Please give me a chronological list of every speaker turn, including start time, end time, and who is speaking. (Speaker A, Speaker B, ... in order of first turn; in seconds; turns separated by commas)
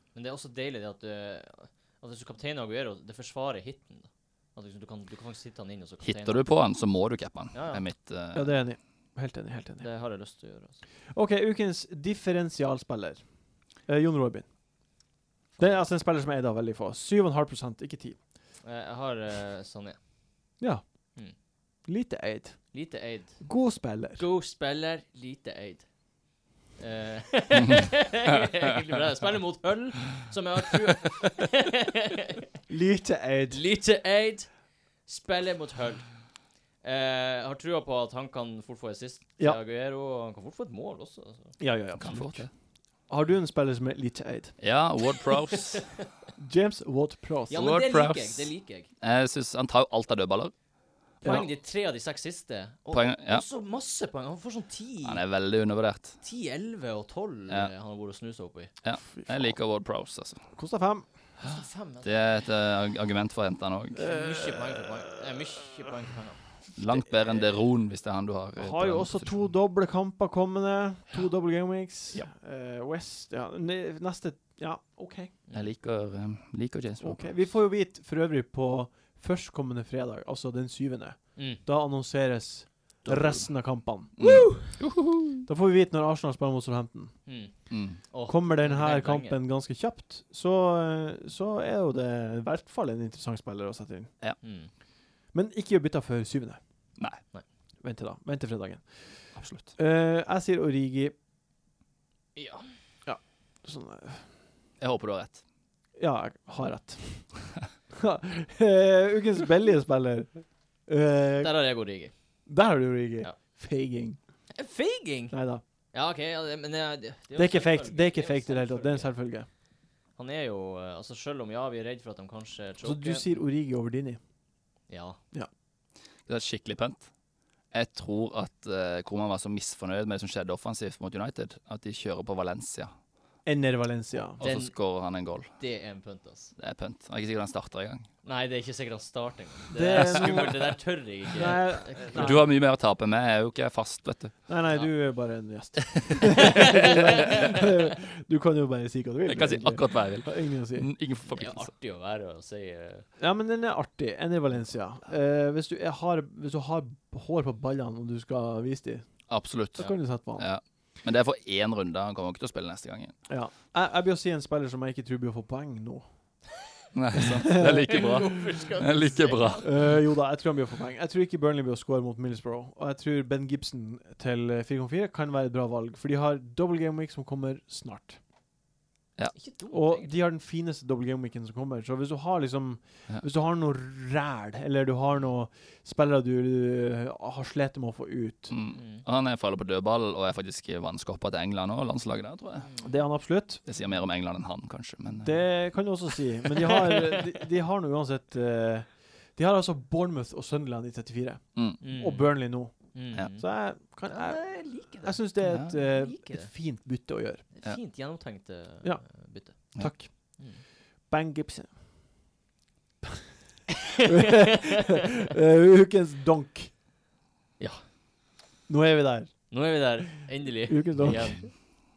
Speaker A: 0.1-6.4, Speaker B: 6.0-8.5, Speaker A: 7.5-7.8, Speaker C: 8.3-9.8, Speaker A: 9.8-10.8, Speaker C: 11.1-13.2, Speaker C: 13.8-14.5, Speaker C: 15.6-18.2, Speaker A: 18.6-20.0, Speaker C: 21.9-22.8, Speaker A: 22.7-23.5, Speaker C: 23.4-24.2, Speaker A: 24.2-25.9, Speaker A: 26.8-32.5, Speaker C: 32.7-33.6, Speaker A: 33.5-34.5, Speaker A: 35.0-36.1, Speaker A: 36.8-41.6, Speaker C: 41.6-42.5, Speaker B: 42.0-42.5, Speaker C: 43.1-44.5, Speaker B: 44.6-45.9, Speaker A: 45.5-46.0, Speaker C: 46.4-47.6, Speaker A: 47.5-48.9, Speaker B: 47.5-50.5, Speaker C: 51.2-51.5, Speaker A: 51.2-55.2, Speaker B: 52.9-53.4, Speaker B: 55.0-56.2, Speaker A: 56.2-58.7, Speaker B: 58.8-60.4, Speaker C: 59.1-59.5, Speaker C: 60.5-61.1, Speaker A: 61.4-62.1, Speaker B: 62.0-64.1, Speaker A: 63.9-66.4, Speaker C: 64.5-64.8, Speaker B: 66.8-69.4, Speaker C: 68.6-75.3, Speaker B: 75.5-77.4, Speaker C: 77.0-84.1, Speaker A: 81.3-81.6, Speaker B: 83.0-83.4, Speaker B: 84.2-85.4, Speaker A: 84.2-84.7, Speaker C: 85.5-87.1, Speaker A: 87.2-89.4, Speaker B: 87.7-88.0, Speaker C: 88.3-94.1, Speaker A: 94.4-94.7, Speaker C: 95.3-96.6, Speaker C: 97.8-98.9, Speaker B: 99.3-99.7, Speaker C: 99.7-101.1, Speaker A: 102.3-102.7, Speaker C: 103.0-104.2, Speaker B: 104.8-105.4, Speaker C: 106.0-110.3, Speaker C: 110.9-111.6, Speaker A: 111.4-112.1, Speaker C: 112.5-114.2, Speaker A: 114.5-115.3, Speaker C: 115.3-115.6, Speaker A: 115.9-119.1, Speaker C: 117.3-119.5, Speaker A: 120.2-123.3, Speaker C: 122.8-124.2, Speaker A: 124.9-125.2, Speaker B: 126.3-127.1, Speaker B: 127.7-132.9, Speaker C: 133.4-134.4, Speaker B: 134.4-135.5, Speaker A: 134.4-134.8, Speaker A: 135.6-136.5, Speaker B: 136.6-138.1, Speaker A: 138.2-142.4, Speaker C: 139.7-140.8, Speaker C: 141.3-142.5, Speaker B: 142.1-144.3, Speaker C: 144.5-150.9, Speaker A: 146.4-147.4, Speaker B: 149.2-151.7, Speaker A: 151.3-153.1, Speaker C: 153.2-159.1, Speaker B: 159.3-163.1, Speaker C: 159.8-160.5, Speaker C: 163.3-166.0, Speaker B: 166.9-169.7, Speaker C: 167.2-168.1, Speaker A: 167.8-169.8, Speaker C: 169.6-178.2, Speaker A: 179.3-180.1, Speaker C: 179.7-188.5, Speaker B: 188.5-192.7, Speaker A: 188.7-189.0, Speaker C: 192.8-193.6, Speaker B: 193.7-195.4, Speaker C: 195.2-207.4, Speaker A: 201.8-206.5, Speaker B: 205.4-205.7, Speaker A: 207.5-209.8, Speaker C: 209.5-210.4, Speaker C: 211.1-211.7, Speaker C: 214.0-216.7, Speaker C: 218.7-219.5, Speaker A: 219.5-221.5, Speaker C: 220.7-221.6